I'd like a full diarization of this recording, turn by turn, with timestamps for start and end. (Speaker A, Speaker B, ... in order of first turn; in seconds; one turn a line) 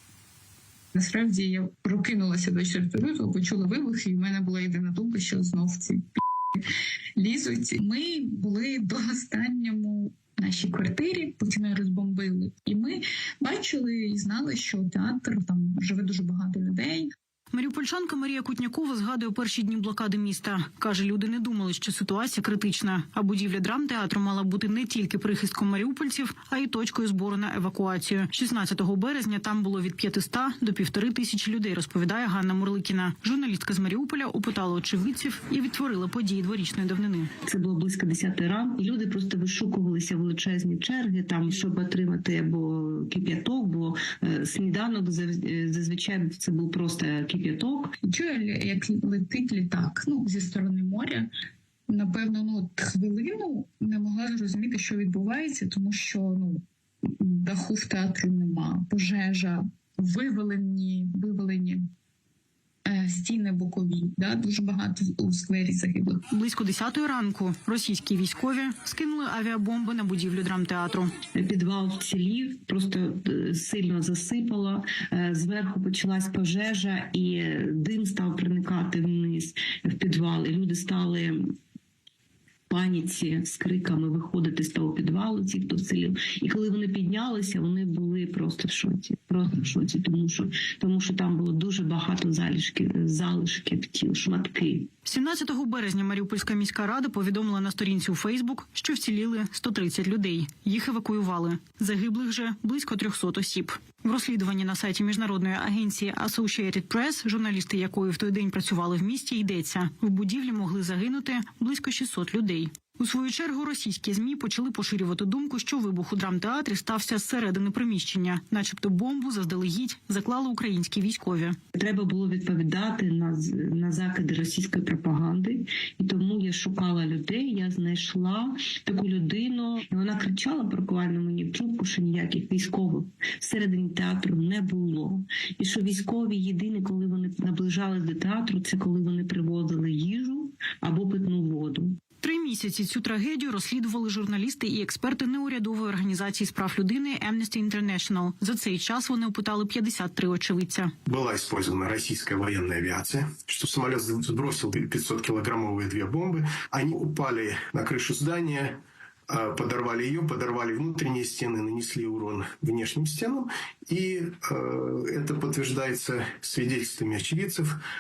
Speaker A: 0.9-6.2
Speaker A: 7.2-17.1
Speaker B: 17.5-37.3
Speaker C: 37.5-47.9
Speaker A: 48.0-51.3
Speaker A: 51.9-61.9
Speaker A: 62.9-66.2
Speaker B: 66.3-71.1
Speaker C: 71.3-81.4
Speaker C: 82.7-94.9
Speaker B: 95.0-121.6
Speaker C: 121.8-142.0
Speaker B: 142.2-150.9
Speaker D: 151.1-158.8
Speaker D: 159.3-167.8